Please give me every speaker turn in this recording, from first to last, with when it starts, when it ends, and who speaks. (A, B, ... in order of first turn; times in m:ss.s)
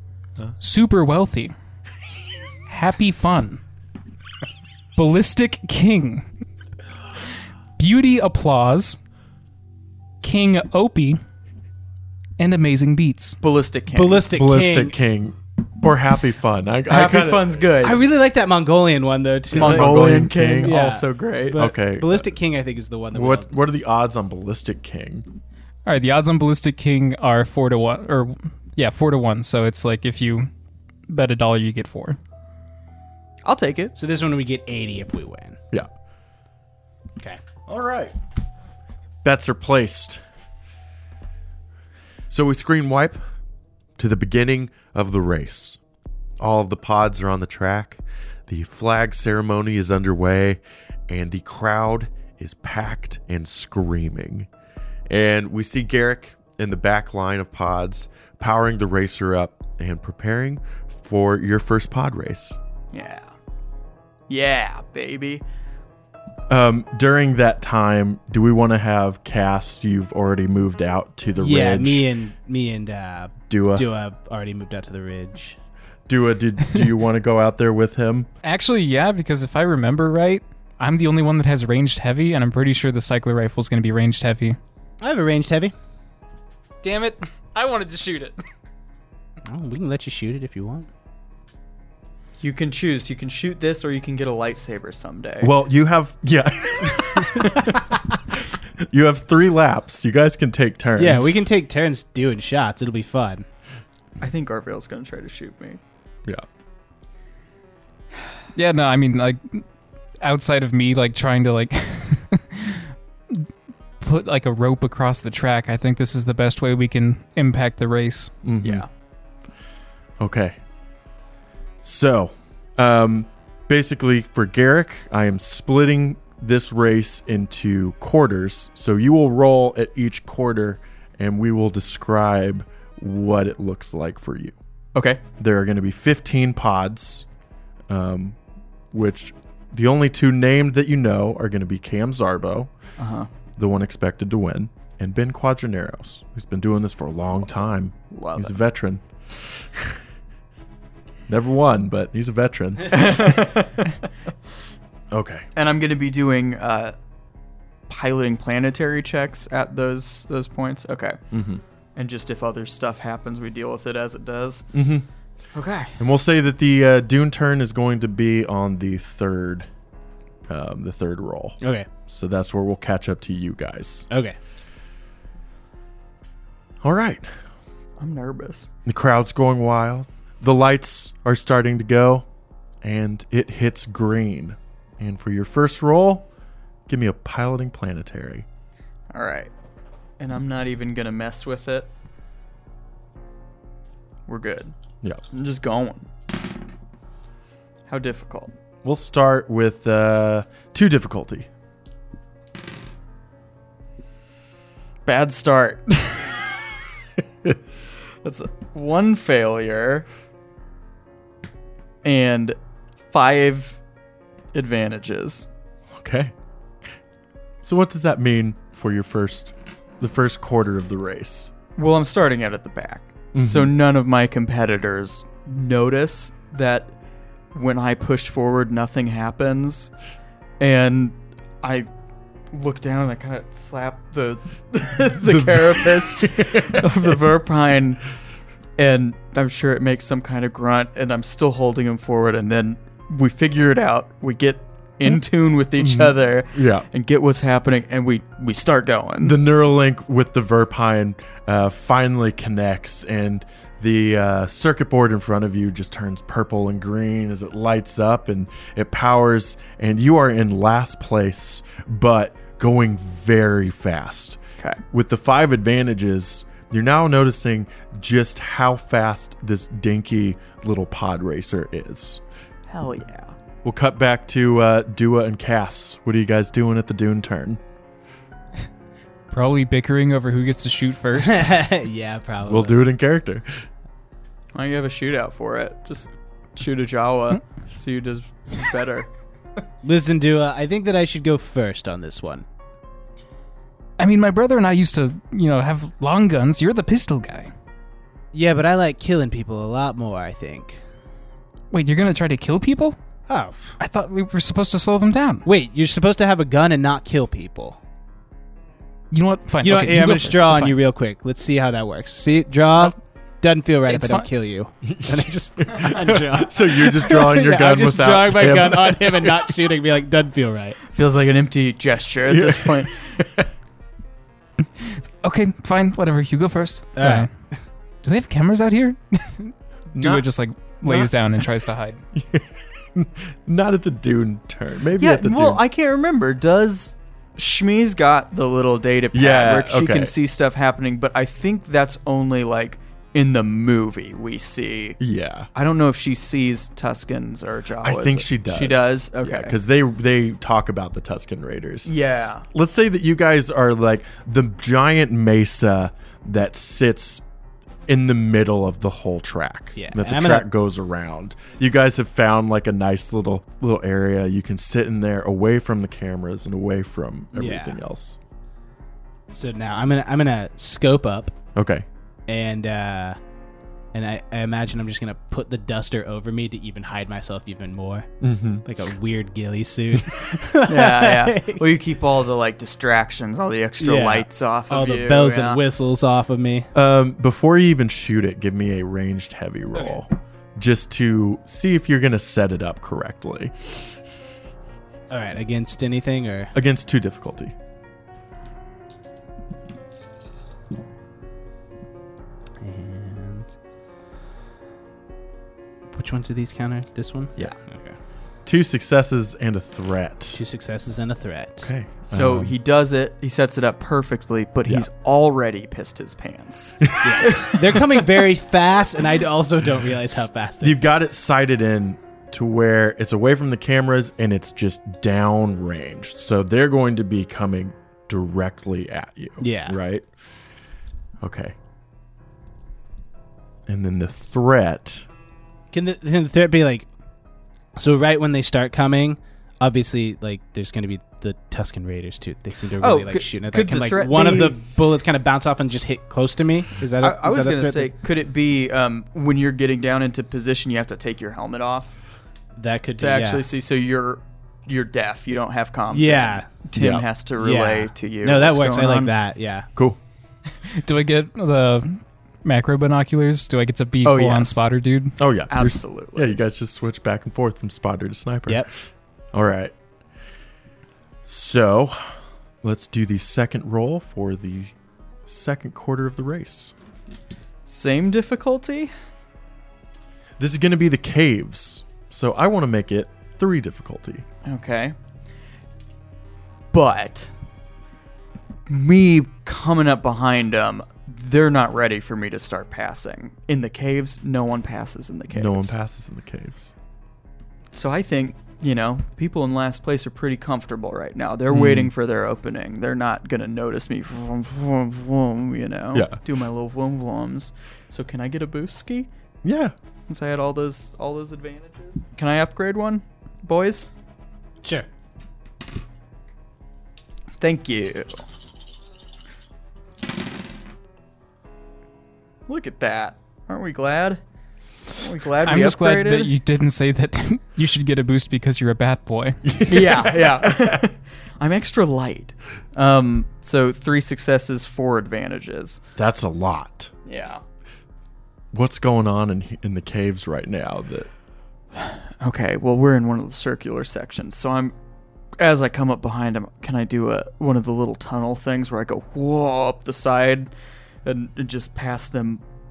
0:00.6-0:01.5 A
0:02.7-0:03.6 A
0:05.0-0:06.3 A
0:07.8-0:09.0 A
0:10.2-0:11.2 A
0:12.4-0:13.4 A
0:13.4-0:14.3 B
0:13.9-0:15.0 C
0:14.3-0:17.4 D
0:16.9-0:18.0 B
0:17.8-0:23.6 C
0:19.5-0:20.8 D
0:19.5-0:21.6 B
0:21.6-0:22.3 D
0:23.1-0:25.2 D
0:25.8-0:30.5 A
0:31.1-0:32.2 A
0:33.4-0:33.9 B
0:34.0-0:35.6 C
0:37.7-0:38.1 D
0:39.2-0:40.2 D
0:42.3-0:43.2 D
0:44.0-0:45.8 D
0:46.4-0:54.5 D
0:55.1-1:02.6 D
1:02.9-1:03.3 B
1:04.3-1:05.4 B
1:06.5-1:12.0 D
1:11.4-1:15.6 C
1:13.5-1:13.9 D
1:16.1-1:18.3 D
1:18.4-1:24.6 A
1:25.0-1:25.7 C
1:26.8-1:28.4 A
1:29.5-1:30.9 C
1:32.4-1:35.5 B
1:35.4-1:37.8 D
1:38.3-1:41.4 D
1:41.0-1:43.4 C
1:44.2-1:45.8 B
1:48.5-1:49.6 A
1:50.2-1:53.5 A
1:54.0-1:58.3 A
1:58.4-1:58.8 D
1:58.6-1:58.9 B
2:00.2-2:00.6 D
2:01.8-2:14.6 D
2:14.9-2:15.2 B
2:15.4-2:17.2 D
2:17.9-2:18.4 D
2:18.9-2:22.7 D
2:23.0-2:23.3 B
2:23.6-2:29.9 D
2:28.1-2:28.5 B
2:31.3-2:33.5 D
2:32.9-2:34.0 B
2:35.1-2:35.5 D
2:35.6-2:36.9 B
2:37.9-2:41.2 B
2:41.3-2:41.6 D
2:42.0-2:44.7 B
2:44.7-2:45.0 D
2:45.5-2:46.0 B
2:46.0-2:49.7 D
2:50.5-2:54.1 D
2:51.6-2:51.9 C
2:54.1-2:54.4 C
2:56.8-2:57.3 D
2:58.0-2:58.7 B
2:58.8-3:02.2 D
3:02.8-3:06.3 D
3:06.9-3:08.4 D
3:09.1-3:09.5 B
3:10.2-3:11.9 B
3:14.3-3:14.7 B
3:15.3-3:16.1 B
3:17.9-3:18.5 B
3:18.8-3:21.5 D
3:25.0-3:26.6 B
3:28.2-3:30.0 B
3:32.0-3:32.6 B
3:33.1-3:33.8 B
3:34.5-3:35.5 B
3:35.9-3:36.3 D
3:37.6-3:41.5 D
3:41.8-3:46.9 B
3:43.3-3:43.7 D
3:47.5-3:49.9 B
3:50.6-3:51.9 B
3:52.5-3:58.0 B
3:55.2-3:57.1 D
3:58.8-4:09.4 B
4:05.8-4:06.8 D
4:09.2-4:24.4 D
4:24.9-4:32.2 D
4:32.7-4:33.4 B
4:33.6-4:37.6 D
4:39.3-4:41.6 A
4:41.2-4:42.8 C
4:42.4-4:43.5 D
4:44.5-4:49.1 B
4:49.8-4:52.4 C
4:54.0-4:57.5 A
4:58.3-5:00.8 C
5:01.7-5:03.0 A
5:03.3-5:03.7 C
5:03.8-5:05.4 A
5:05.4-5:07.8 C
5:09.1-5:10.8 A
5:09.6-5:20.8 C
5:13.8-5:14.3 A
5:14.8-5:19.6 D
5:20.9-5:23.2 B
5:22.3-5:23.5 D
5:24.8-5:27.3 A
5:27.0-5:27.6 C
5:28.0-5:32.0 A
5:29.9-5:30.2 D
5:32.1-5:35.6 D
5:35.0-5:45.0 B
5:39.1-5:40.1 D
5:45.0-5:45.5 D
5:45.5-5:49.5 B
5:47.8-5:51.9 D
5:51.8-5:52.5 B
5:52.5-5:57.2 D
5:57.9-6:08.2 D
5:59.7-6:00.5 C
6:07.3-6:07.8 C
6:09.3-6:11.4 C
6:11.6-6:11.8 D
6:12.3-6:13.2 C
6:13.9-6:18.1 C
6:18.2-6:18.7 D
6:18.6-6:21.6 C
6:20.6-6:25.6 B
6:23.8-6:26.7 C
6:26.7-6:33.8 D
6:29.7-6:30.0 C
6:35.1-6:36.5 C
6:36.5-6:37.5 D
6:42.6-6:43.5 C
6:45.9-6:48.0 C
6:48.4-6:50.4 D
6:50.3-6:51.7 C
6:51.6-6:52.5 D
6:52.1-6:58.0 B
6:56.8-6:57.5 D
6:57.0-7:00.8 C
7:00.6-7:10.1 D
7:09.4-7:09.8 C
7:11.2-7:11.5 D
7:13.7-7:15.0 D
7:15.7-7:16.9 C
7:17.8-7:27.9 C
7:22.8-7:24.6 B
7:27.0-7:32.0 B
7:32.6-7:33.4 C
7:33.0-7:39.1 B
7:35.9-7:36.5 C
7:36.8-7:37.0 D
7:37.4-7:39.7 C
7:40.6-7:45.2 A
7:44.0-7:44.6 B
7:45.2-7:48.7 D
7:45.5-7:46.3 B
7:49.3-7:49.7 D
7:51.2-7:54.7 D
7:55.2-7:56.7 D
7:57.6-7:58.9 B
8:00.4-8:04.2 D
8:04.4-8:04.9 B
8:06.7-8:07.3 B
8:08.7-8:15.7 B
8:15.3-8:16.7 D
8:17.7-8:29.1 B
8:21.5-8:21.9 D
8:25.9-8:26.2 D
8:29.4-8:29.7 D
8:30.1-8:33.9 B
8:37.4-8:38.2 B
8:42.5-8:44.2 B
8:45.0-8:46.3 B
8:45.4-8:49.4 A
8:49.4-8:50.8 D
8:49.7-8:55.8 B
8:56.0-8:56.9 D
8:57.0-8:57.4 B
8:58.5-9:01.1 D
9:01.8-9:04.7 B
9:05.4-9:10.5 B
9:11.0-9:12.4 B